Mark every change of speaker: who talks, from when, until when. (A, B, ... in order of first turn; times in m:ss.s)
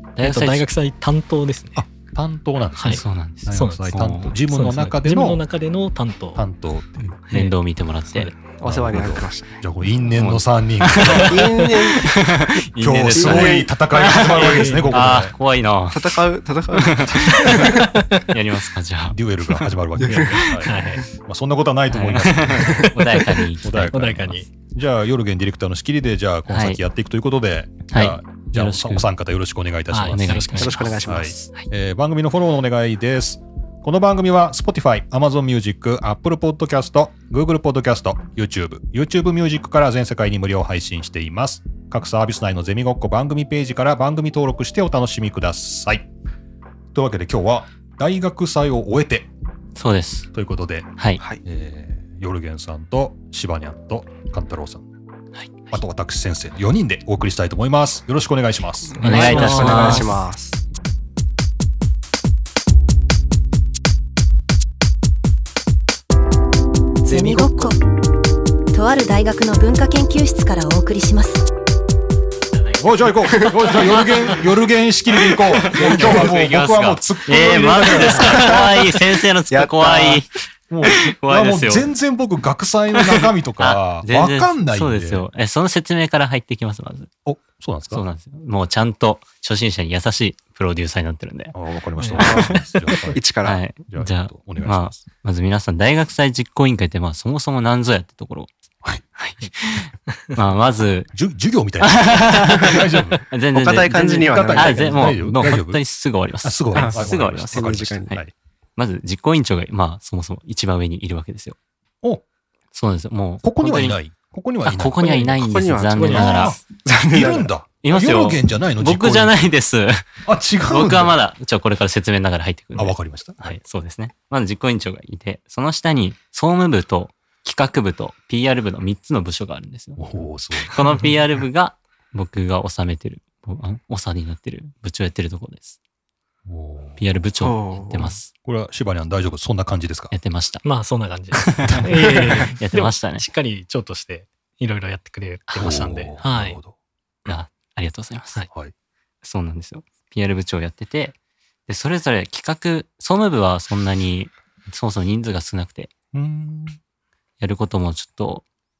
0:00.2-0:00.6 A
0:00.2-0:01.8 B
0:01.8-0:05.4 C
0:02.8-0:04.4 A
0:03.5-0:06.4 B
0:06.3-0:07.1 C
0:07.0-0:08.4 A
0:07.3-0:07.5 B
0:08.1-0:08.3 B
0:08.5-0:09.6 D
0:08.6-0:11.5 C
0:10.0-0:20.6 A
0:11.1-0:12.1 D
0:12.8-0:15.3 C
0:13.1-0:13.7 D
0:14.3-0:15.1 B
0:15.9-0:17.8 D
0:17.3-0:18.3 B
0:19.1-0:22.9 C
0:20.0-0:20.3 D
0:20.4-0:21.0 B
0:21.9-0:24.4 A
0:22.5-0:24.5 B
0:23.6-0:46.1 C
0:26.5-0:26.8 A
0:27.9-0:29.0 A
0:29.9-0:30.9 B
0:30.1-0:31.7 A
0:30.6-0:31.5 D
0:46.9-0:49.3 C
0:49.7-0:50.3 A
0:50.3-0:54.8 C
0:55.3-0:55.8 A
0:55.7-0:59.0 C
0:58.9-1:00.6 D
0:59.0-1:00.2 B
0:59.0-1:00.2 A
1:07.0-1:07.8 E
1:07.1-1:07.5 D
1:08.7-1:11.4 E
1:12.6-1:13.7 B
1:12.8-1:18.9 C
1:15.3-1:20.3 A
1:18.2-1:18.6 D
1:19.5-1:20.2 D
1:20.7-1:25.2 C
1:20.8-1:21.9 A
1:22.9-1:27.1 A
1:27.2-1:28.0 C
1:27.9-1:31.5 A
1:31.5-1:33.2 C
1:32.0-1:33.1 B
1:32.2-1:33.6 D
1:33.4-1:38.5 A
1:33.9-1:35.0 C
1:39.2-1:41.1 A
1:41.1-1:43.2 C
1:41.8-1:47.9 A
1:43.5-1:45.2 D
1:44.2-1:45.8 C
1:46.4-1:48.3 C
1:46.7-1:48.2 D
1:48.8-1:51.6 A
1:52.7-1:54.0 A
1:53.4-1:55.2 C
1:54.6-1:56.6 A
1:55.1-1:57.5 D
1:55.9-1:56.6 B
1:56.0-1:59.4 C
1:57.8-2:00.1 A
2:00.2-2:01.2 C
2:00.7-2:15.8 A
2:02.8-2:03.6 C
2:10.0-2:11.0 C
2:16.4-2:17.0 C
2:17.0-2:18.3 A
2:17.4-2:18.2 D
2:18.4-2:20.1 C
2:20.1-2:20.6 A
2:20.6-2:26.6 B
2:21.4-2:23.2 A
2:21.6-2:22.0 C
2:25.6-2:26.7 C
2:27.2-2:28.4 A
2:29.2-2:31.2 A
2:31.7-2:35.9 A
2:36.1-2:36.8 C
2:37.4-2:38.4 A